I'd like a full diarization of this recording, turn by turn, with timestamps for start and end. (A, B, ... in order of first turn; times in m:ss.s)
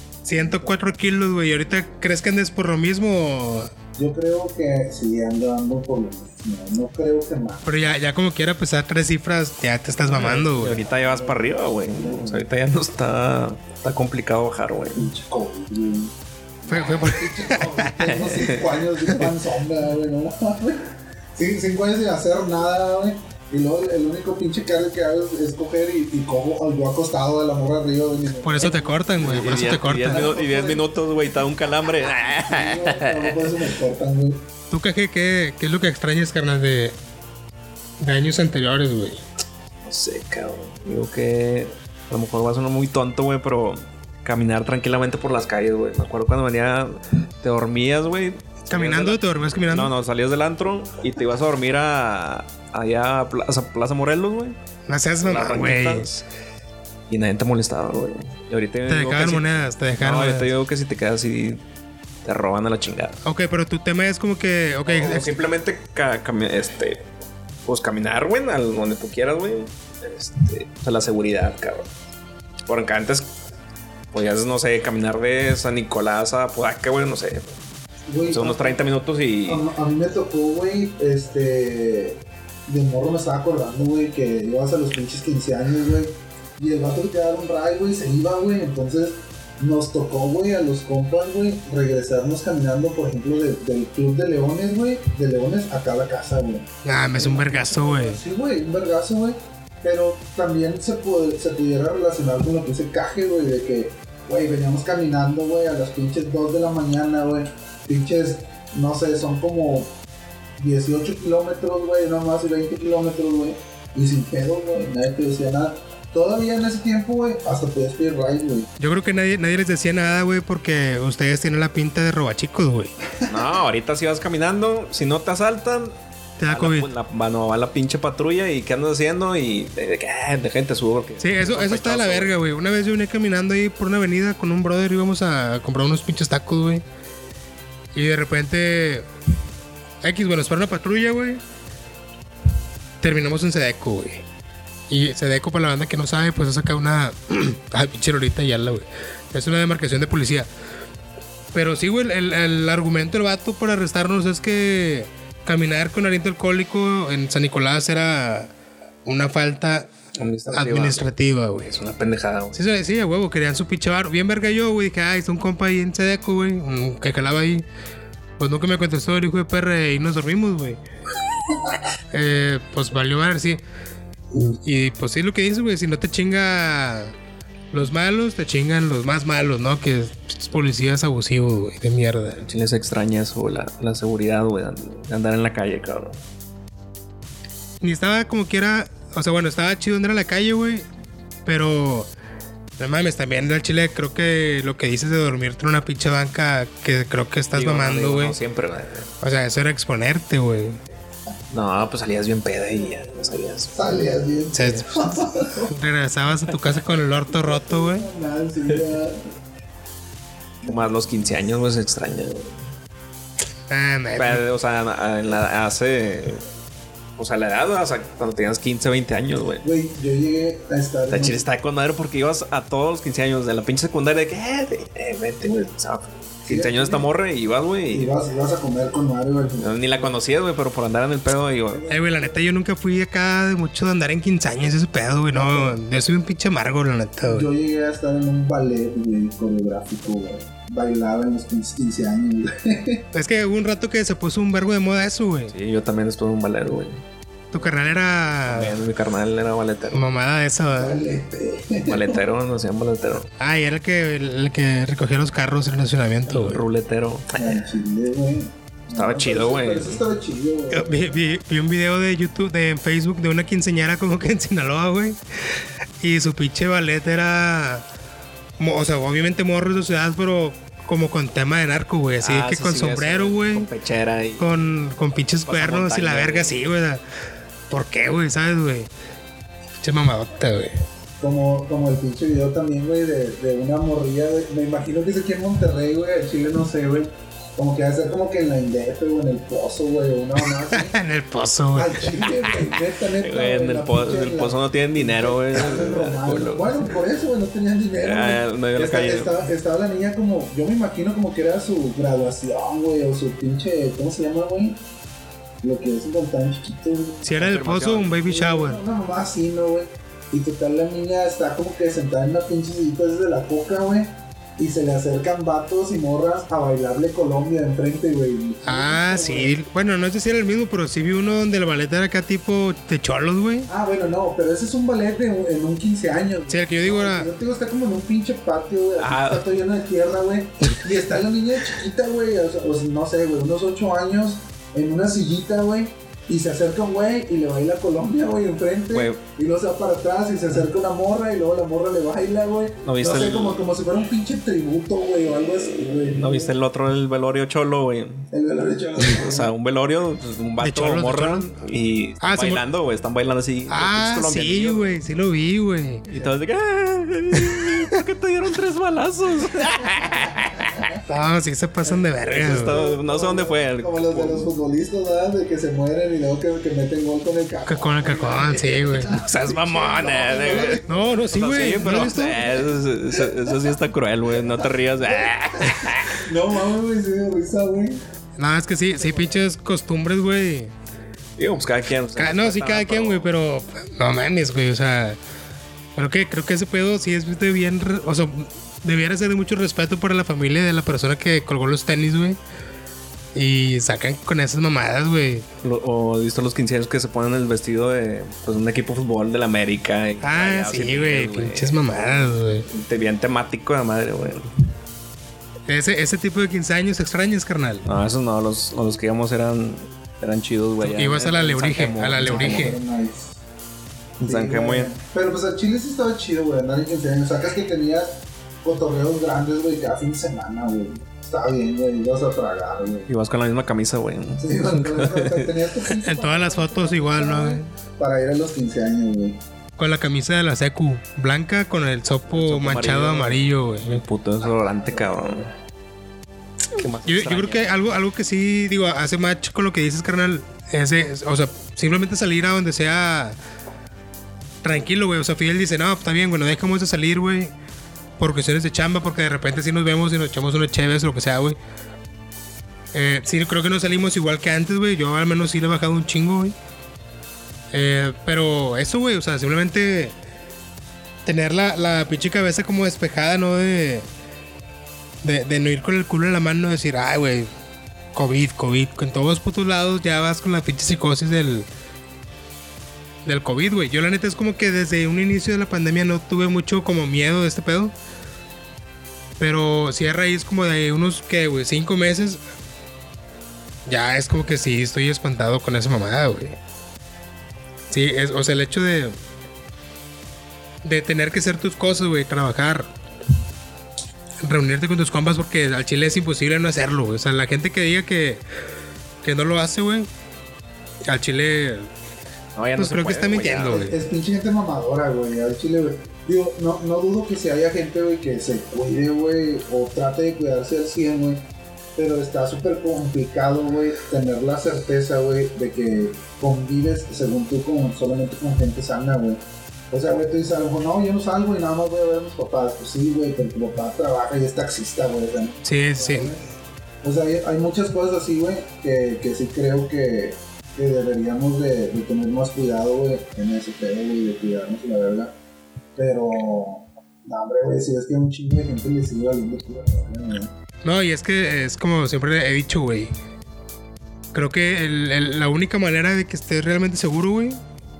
0:00.2-0:03.7 A
0:00.3-0:01.0 B
0:04.0-0:07.7 B
0:07.6-0:10.8 A
0:10.1-0:15.1 C
0:10.2-0:12.4 B
0:15.0-0:30.9 B
0:16.7-0:17.9 A
0:18.0-0:18.7 C
0:28.4-0:30.3 A
0:28.6-0:33.7 C
0:32.4-0:34.4 B
0:34.7-0:37.0 A
0:38.0-0:39.2 A
0:39.8-0:54.6 C
0:48.6-0:49.9 A
0:54.9-0:56.1 A
0:55.2-0:56.2 C
0:57.1-1:01.6 C
0:58.9-1:00.5 A
1:02.2-1:03.2 C
1:03.2-1:05.3 A
1:04.8-1:07.0 C
1:07.6-1:11.9 C
1:12.7-1:13.3 C
1:14.1-1:17.5 C
1:18.1-1:18.8 B
1:18.3-1:19.6 C
1:19.4-1:49.9 B
1:36.8-1:38.2 A
1:50.6-1:58.7 B
1:58.8-2:02.9 A
2:03.3-2:12.3 C
2:06.4-2:06.9 A
2:11.2-2:16.8 A
2:17.9-2:19.1 A
2:20.0-2:21.4 A
2:23.0-2:24.2 A
2:24.9-2:30.5 A
2:31.5-2:38.5 A
2:39.0-2:39.9 A
2:40.2-2:42.6 C
2:40.5-2:41.8 A
2:42.5-2:47.6 A
2:48.4-2:50.8 A
2:52.1-2:53.6 A
2:54.3-2:57.1 A
2:57.7-3:02.4 A
3:02.4-3:06.2 C
3:07.8-3:10.9 A
3:11.4-3:12.1 A
3:12.8-3:18.4 A
3:17.5-3:19.1 C
3:19.2-3:20.8 A
3:21.5-3:24.0 C
3:23.7-3:25.7 B
3:24.5-3:28.1 A
3:27.3-3:29.3 B
3:30.6-3:32.6 C
3:33.7-3:34.4 A
3:34.2-3:36.4 C
3:37.2-3:39.6 C
3:39.6-3:41.4 B
3:41.1-3:48.1 C
3:46.4-3:47.1 B
3:47.9-3:50.1 B
3:49.6-3:51.8 C
3:51.7-3:52.4 B
3:51.9-3:57.5 A
3:55.3-3:55.8 B
3:57.2-4:03.0 B
4:03.1-4:05.5 A
4:05.5-4:07.0 C
4:07.5-4:08.8 A
4:08.4-4:10.1 C
4:09.9-4:11.0 A
4:10.7-4:12.2 B
4:11.9-4:13.3 C
4:13.4-4:16.6 A
4:16.3-4:17.6 C
4:17.3-4:21.2 B
4:18.9-4:20.0 C
4:20.7-4:27.8 A
4:28.6-4:33.7 A
4:32.2-4:34.5 C
4:34.4-4:37.0 A
4:35.5-4:36.6 C
4:37.7-4:38.9 A
4:39.8-4:40.7 A
4:41.2-4:51.0 B
4:50.7-4:52.6 A
4:51.7-5:04.8 B
4:53.1-4:57.0 C
4:58.0-4:59.4 C
5:05.6-5:07.4 B
5:07.2-5:08.8 A
5:07.4-5:08.2 C
5:08.2-5:19.5 B
5:18.6-5:23.7 A
5:23.7-5:46.5 B
5:26.5-5:27.3 A
5:29.0-5:29.4 C
5:38.9-5:39.2 C
5:42.8-5:43.6 C
5:46.1-5:48.3 C
5:48.3-5:49.5 B
5:49.0-5:55.0 C
5:50.6-5:51.5 A
5:52.2-5:52.6 A
5:53.7-5:56.1 A
5:56.1-6:00.9 C
5:57.3-5:58.0 A
6:00.0-6:00.9 B
6:01.0-6:02.8 A
6:01.8-6:12.6 B
6:02.2-6:04.5 C
6:07.7-6:09.1 A
6:08.6-6:16.2 C
6:10.8-6:12.4 A
6:16.1-6:18.0 B
6:18.4-6:20.7 A
6:19.0-6:19.4 B
6:21.4-6:23.3 C
6:22.1-6:25.2 A
6:26.0-6:32.4 A
6:33.3-6:35.5 A
6:35.6-6:44.5 C
6:40.2-6:42.7 A
6:45.7-6:47.9 A
6:47.8-6:52.8 C
6:50.8-6:52.8 A
6:52.2-6:53.4 B
6:54.2-6:54.9 C
6:54.2-7:03.1 B
7:03.1-7:05.5 C
7:04.4-7:09.4 B
7:05.9-7:07.7 A
7:09.8-7:14.0 A
7:12.3-7:15.5 C
7:14.6-7:15.4 B
7:16.7-7:17.8 C
7:17.0-7:23.4 A
7:24.6-7:27.5 A
7:28.2-7:31.6 A
7:32.9-7:36.6 A
7:37.7-7:40.2 A
7:41.2-7:44.1 A
7:45.2-7:47.5 A
7:48.1-7:51.7 A
7:53.2-7:57.9 A
7:59.4-8:02.4 A
8:03.8-8:06.6 A
8:07.9-8:09.2 A
8:10.8-8:12.9 A
8:14.4-8:18.4 A
8:19.2-8:20.1 A
8:21.0-8:21.9 A
8:22.6-8:23.8 C
8:22.8-8:24.0 A
8:23.6-8:31.4 B
8:32.0-8:46.5 B
8:45.6-8:46.3 A
8:47.0-8:55.3 B
8:56.0-9:00.5 B
9:00.8-9:03.1 A
9:04.3-9:07.6 A